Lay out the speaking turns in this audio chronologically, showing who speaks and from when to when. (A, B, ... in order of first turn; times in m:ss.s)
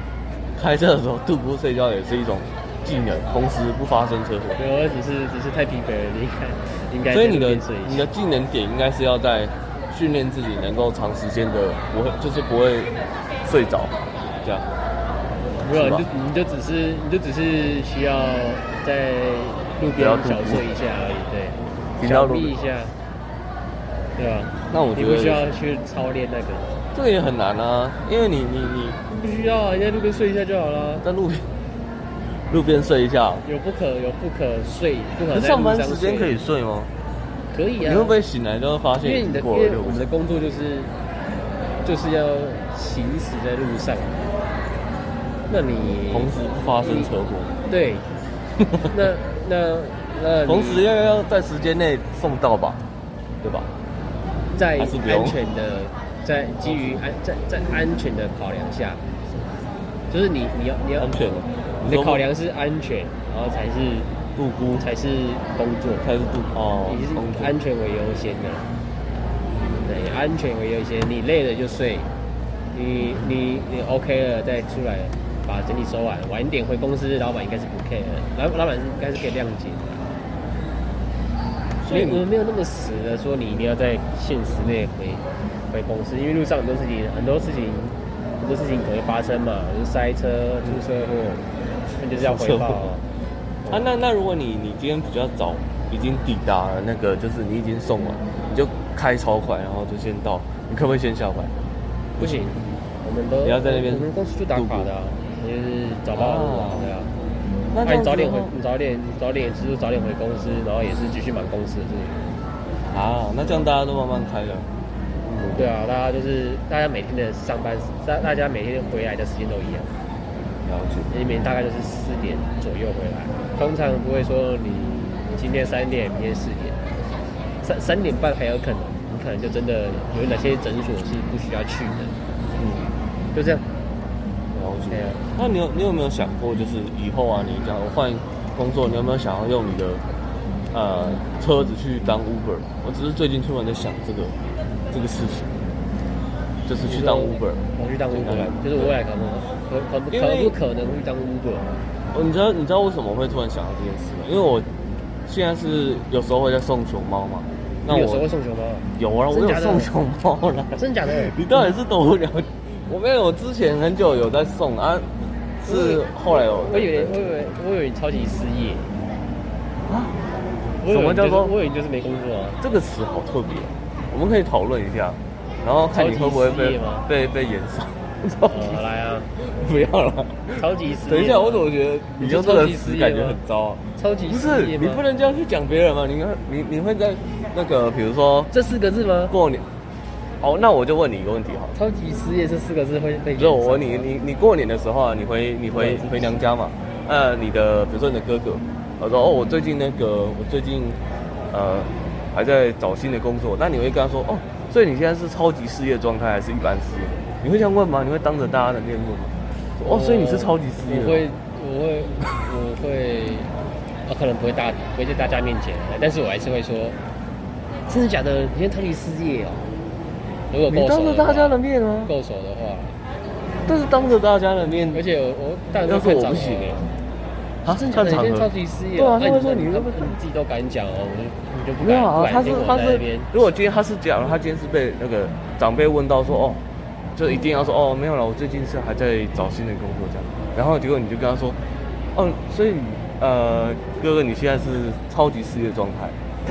0:00.5-0:04.6 A
0:04.6-0:08.0 B
0:07.1-0:12.9 A
0:13.4-0:14.7 A
0:15.5-0:16.0 A
0:15.6-0:22.9 B
0:19.9-0:20.6 A
0:22.0-0:22.6 A
0:24.2-0:26.8 B
0:24.7-0:25.4 A
0:26.9-0:29.0 A
0:29.1-0:31.0 B
0:31.0-0:31.5 A
0:32.5-0:33.4 A
0:33.4-0:36.4 B
0:35.3-0:36.9 A
0:37.5-0:38.2 B
0:37.8-0:40.0 A
0:39.0-0:40.9 B
0:41.8-0:44.2 B
0:45.5-0:47.1 B
0:46.1-0:47.5 A
0:47.7-0:48.1 B
0:48.6-0:48.9 A
0:48.9-0:50.8 B
0:50.4-0:52.8 A
0:53.4-0:53.7 A
0:54.5-0:59.5 B
0:54.8-0:55.4 A
0:56.6-0:57.0 A
1:00.1-1:01.1 B
1:01.0-1:02.2 A
1:01.8-1:04.1 B
1:04.4-1:04.8 A
1:04.8-1:06.1 B
1:06.0-1:07.5 A
1:06.8-1:08.7 B
1:09.8-1:12.1 B
1:12.7-1:20.2 B
1:21.8-1:22.2 A
1:21.9-1:31.4 B
1:32.0-1:33.0 B
1:32.2-1:32.8 A
1:33.7-1:41.5 A
1:42.2-1:42.5 A
1:42.2-1:47.1 B
1:43.4-1:44.9 A
1:46.1-1:46.9 A
1:47.7-1:48.5 A
1:47.8-1:52.3 B
1:52.9-1:54.7 A
1:55.3-1:55.7 A
1:55.4-1:59.9 B
2:00.6-2:01.1 A
2:01.1-2:06.8 B
2:07.6-2:12.2 B
2:12.6-2:12.9 A
2:13.3-2:13.6 B
2:14.5-2:20.0 A
2:14.9-2:15.2 B
2:20.7-2:24.4 A
2:24.9-2:25.5 A
2:26.6-2:29.0 A
2:26.8-2:31.8 B
2:30.1-2:30.5 A
2:32.1-2:34.7 A
2:35.2-2:38.2 A
2:37.9-2:39.9 B
2:39.0-2:45.1 A
2:40.8-2:41.7 B
2:45.6-2:47.2 A
2:45.6-2:48.9 B
2:49.9-2:50.2 A
2:50.8-2:52.6 B
2:50.9-2:51.5 A
2:52.6-2:58.8 A
2:55.9-2:57.0 B
2:58.4-2:59.3 B
2:59.4-3:08.5 A
3:00.6-3:01.7 B
3:02.2-3:03.4 B
3:04.0-3:05.0 B
3:08.5-3:09.3 B
3:09.3-3:09.7 A
3:10.4-3:11.7 A
3:11.7-3:14.1 B
3:13.4-3:21.0 A
3:15.7-3:16.4 B
3:21.5-3:31.2 A
3:29.8-3:33.5 B
3:34.0-3:37.0 B
3:37.9-3:39.7 B
3:40.5-3:43.0 B
3:40.7-3:42.1 A
3:43.6-3:45.0 A
3:44.9-3:46.8 B
3:45.8-3:46.9 A
3:47.6-3:50.1 A
3:47.6-3:53.3 B
3:51.8-3:56.6 A
3:57.2-4:01.6 A
4:02.1-4:06.2 A